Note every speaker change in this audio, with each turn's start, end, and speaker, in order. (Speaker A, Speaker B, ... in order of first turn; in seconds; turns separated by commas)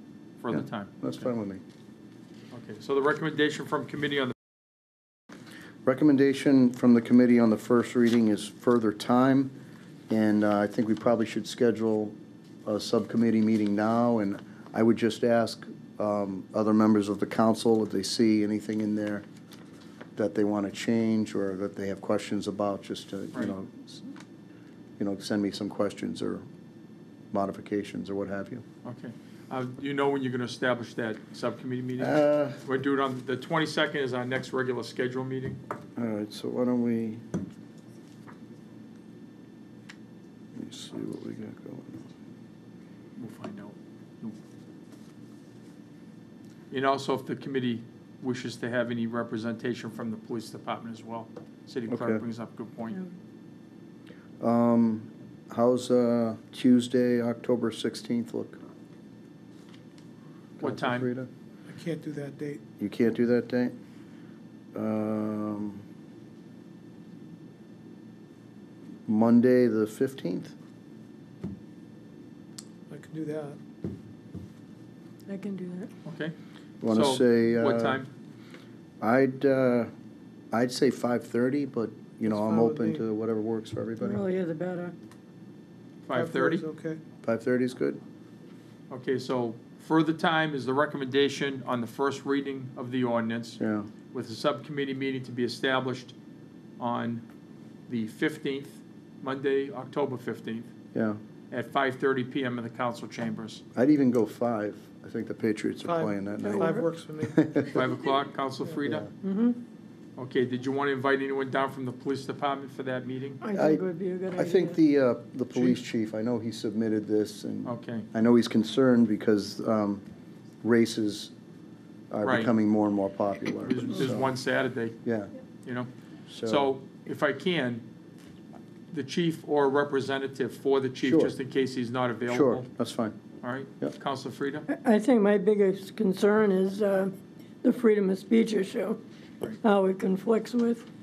Speaker A: 0.4-1.2, Speaker B: 0.5-1.6, Speaker A: 2.5-4.3, Speaker B: 5.8-9.6, Speaker B: 10.1-12.1, Speaker B: 12.7-19.2, Speaker B: 20.1-24.1, Speaker B: 25.0-26.4, Speaker B: 27.3-28.6, Speaker A: 28.8-35.6, Speaker B: 32.0-32.6, Speaker B: 36.0-37.2, Speaker B: 40.5-42.1, Speaker A: 43.2-44.4, Speaker A: 46.7-53.0, Speaker B: 51.9-52.2, Speaker B: 54.4-58.6, Speaker B: 60.6-61.3, Speaker A: 60.6-61.1, Speaker C: 61.7-62.6, Speaker B: 62.8-63.7, Speaker B: 64.8-65.8, Speaker B: 69.1-70.5, Speaker C: 72.9-73.6, Speaker D: 75.3-75.9, Speaker A: 76.0-76.3, Speaker B: 76.8-78.0, Speaker A: 76.9-78.1, Speaker B: 79.0-79.9, Speaker B: 80.5-84.2, Speaker C: 82.3-83.0, Speaker D: 84.0-85.0, Speaker A: 86.0-86.6, Speaker C: 86.1-87.0, Speaker B: 87.2-88.0, Speaker A: 88.9-93.6, Speaker B: 93.6-93.9, Speaker A: 94.1-96.1, Speaker A: 96.8-97.2, Speaker A: 97.9-100.7, Speaker B: 100.9-101.2, Speaker A: 101.5-103.6, Speaker B: 103.8-107.8, Speaker C: 105.8-107.4, Speaker D: 106.4-106.9, Speaker A: 107.7-109.1, Speaker D: 109.2-109.6, Speaker A: 110.2-113.4, Speaker D: 113.4-114.8, Speaker B: 113.5-113.8, Speaker B: 114.3-120.0, Speaker A: 117.7-118.1, Speaker B: 120.6-121.3, Speaker B: 122.1-124.3, Speaker A: 122.2-122.5, Speaker A: 123.6-125.0, Speaker B: 125.0-125.3, Speaker B: 126.3-126.7, Speaker A: 126.5-127.8, Speaker A: 128.9-132.7, Speaker B: 131.0-131.3, Speaker B: 132.3-133.2, Speaker A: 133.4-134.7, Speaker D: 134.7-140.8